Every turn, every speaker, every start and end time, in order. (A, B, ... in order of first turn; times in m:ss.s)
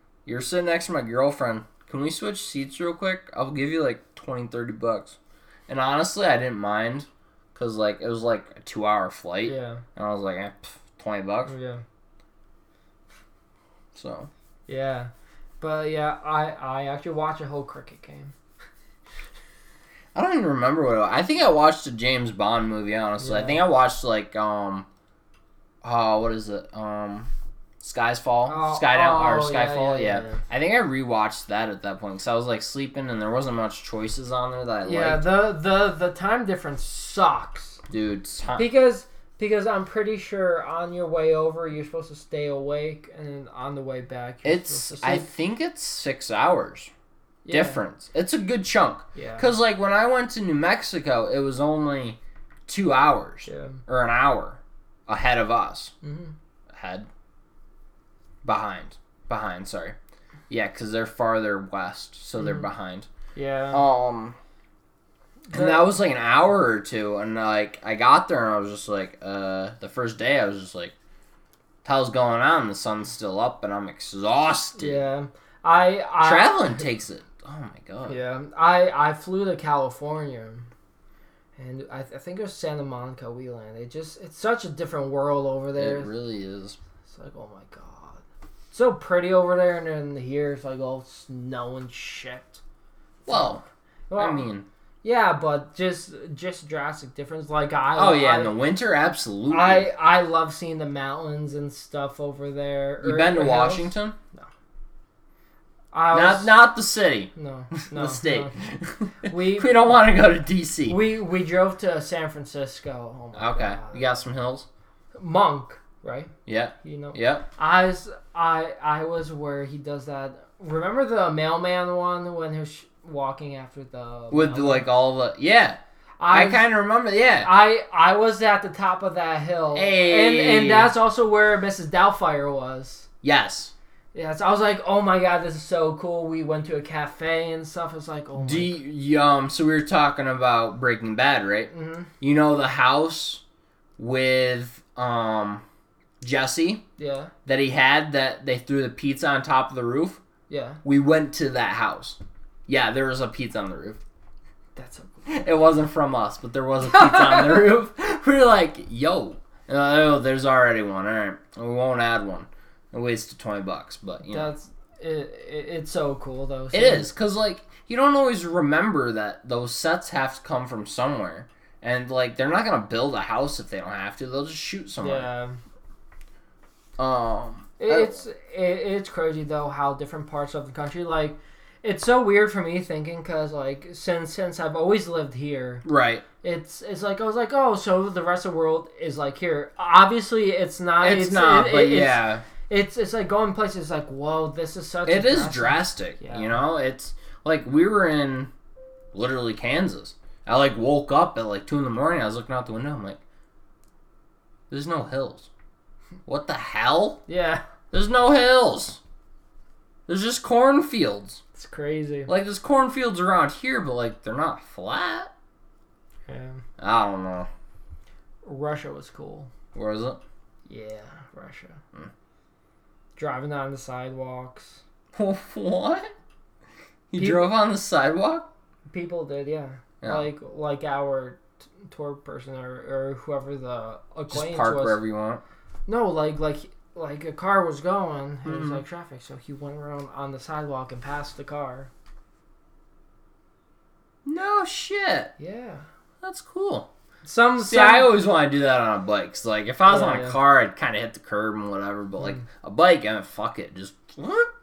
0:00.3-0:11.5 A
0:09.4-0:09.8 B
0:11.5-0:11.8 B
0:14.0-0:14.3 A
0:14.7-0:18.3 B
0:20.2-0:24.9 A
0:23.2-0:23.6 B
0:25.8-0:27.3 A
0:27.8-0:35.3 A
0:28.5-0:30.4 B
0:34.8-0:37.8 B
0:37.9-0:38.7 A
0:38.6-0:45.3 B
0:44.4-0:46.9 A
0:47.4-0:47.8 B
0:47.5-0:55.9 A
0:49.2-0:49.5 B
0:53.5-0:53.8 B
0:56.0-0:56.3 B
0:56.7-0:57.1 A
0:58.4-1:00.0 A
1:00.5-1:03.1 A
1:03.4-1:03.8 B
1:03.7-1:04.4 A
1:05.5-1:05.9 B
1:05.5-1:11.0 A
1:11.8-1:15.0 A
1:14.8-1:16.7 B
1:16.2-1:18.2 A
1:18.1-1:20.7 B
1:21.6-1:26.1 B
1:25.8-1:26.8 A
1:27.1-1:32.6 B
1:33.3-1:33.6 B
1:33.3-1:33.6 A
1:34.1-1:34.4 B
1:34.2-1:34.7 A
1:35.0-1:38.6 B
1:38.0-1:39.9 A
1:39.5-1:44.5 B
1:43.0-1:44.2 A
1:45.9-1:46.6 B
1:46.1-1:51.0 A
1:47.4-1:48.6 B
1:49.2-1:50.0 B
1:50.9-1:54.1 B
1:53.4-1:54.7 A
1:55.2-2:04.9 B
1:56.5-1:57.5 A
2:04.3-2:05.8 A
2:06.2-2:06.7 B
2:06.3-2:07.5 A
2:07.4-2:13.1 B
2:09.7-2:10.9 A
2:13.2-2:13.7 A
2:14.1-2:18.8 B
2:18.4-2:23.4 A
2:21.7-2:22.1 B
2:24.0-2:25.6 A
2:26.2-2:26.8 A
2:27.0-2:27.3 B
2:27.4-2:30.2 A
2:30.5-2:30.8 B
2:30.8-2:34.0 A
2:34.8-2:35.4 B
2:35.3-2:44.5 A
2:36.9-2:37.6 B
2:44.3-2:47.1 B
2:46.7-2:55.3 A
2:55.0-2:55.6 B
2:57.0-2:58.2 A
2:57.8-3:05.8 B
3:05.8-3:06.2 A
3:06.4-3:16.6 B
3:11.0-3:12.4 A
3:15.1-3:18.5 A
3:19.1-3:23.2 A
3:24.7-3:25.5 A
3:26.3-3:27.2 A
3:27.3-3:27.6 B
3:27.9-3:29.0 A
3:30.1-3:31.4 A
3:31.6-3:32.3 B
3:32.3-3:35.3 A
3:36.3-3:36.6 B
3:36.8-3:37.5 A
3:38.4-3:39.5 B
3:39.7-3:40.2 A
3:40.7-3:41.8 B
3:43.2-3:44.8 B
3:45.1-3:46.1 A
3:47.1-3:48.5 A
3:47.2-3:47.5 B
3:48.9-3:55.0 B
3:54.3-3:55.4 A
3:55.9-4:01.9 B
3:58.5-3:58.8 A
4:04.2-4:05.3 A
4:05.4-4:05.8 B
4:06.2-4:06.9 A
4:07.2-4:08.1 B
4:07.6-4:14.5 A
4:09.9-4:10.4 B